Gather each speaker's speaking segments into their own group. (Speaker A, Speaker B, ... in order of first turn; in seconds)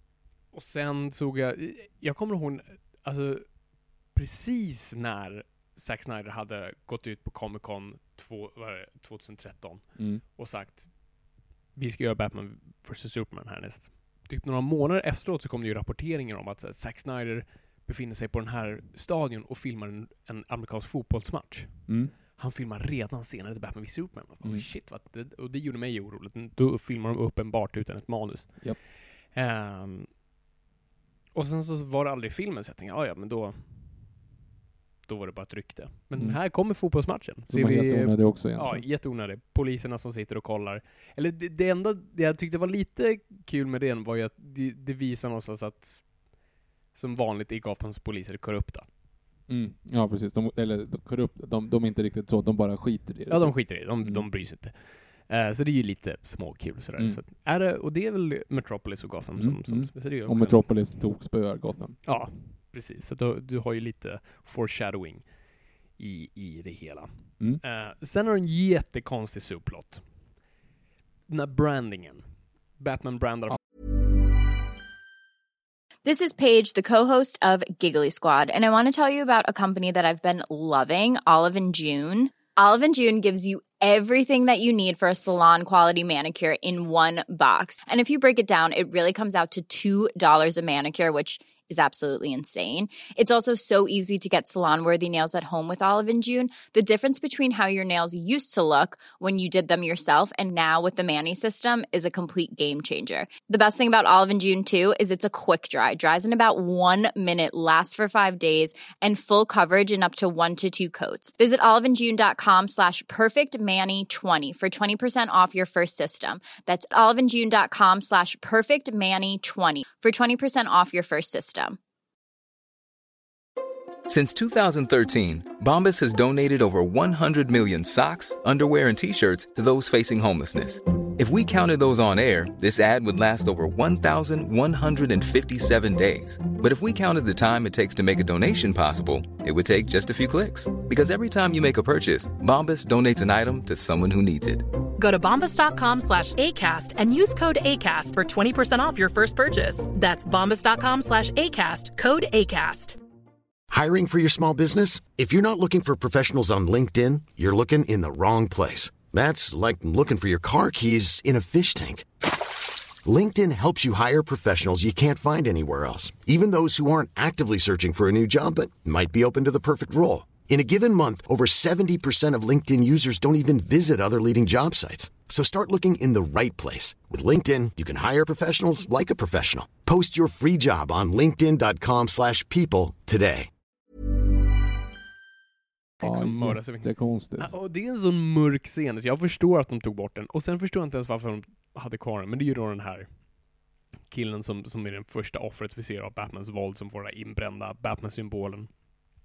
Speaker A: 0.5-11.1, 11.8-30.1, 31.3-34.1, 35.0-46.2, 46.9-48.9, 53.3-60.7, 62.0-70.1, 71.3-73.6, 186.0-193.1, 194.1-198.9
Speaker B: 9.9-10.2, 21.9-22.1, 36.1-36.9, 37.5-38.9, 49.5-54.3, 57.0-57.2, 59.4-62.0, 186.0-187.5
Speaker C: 76.0-121.8
Speaker D: 124.1-144.7
Speaker E: 145.0-153.0
Speaker F: 153.7-162.1, 163.0-183.5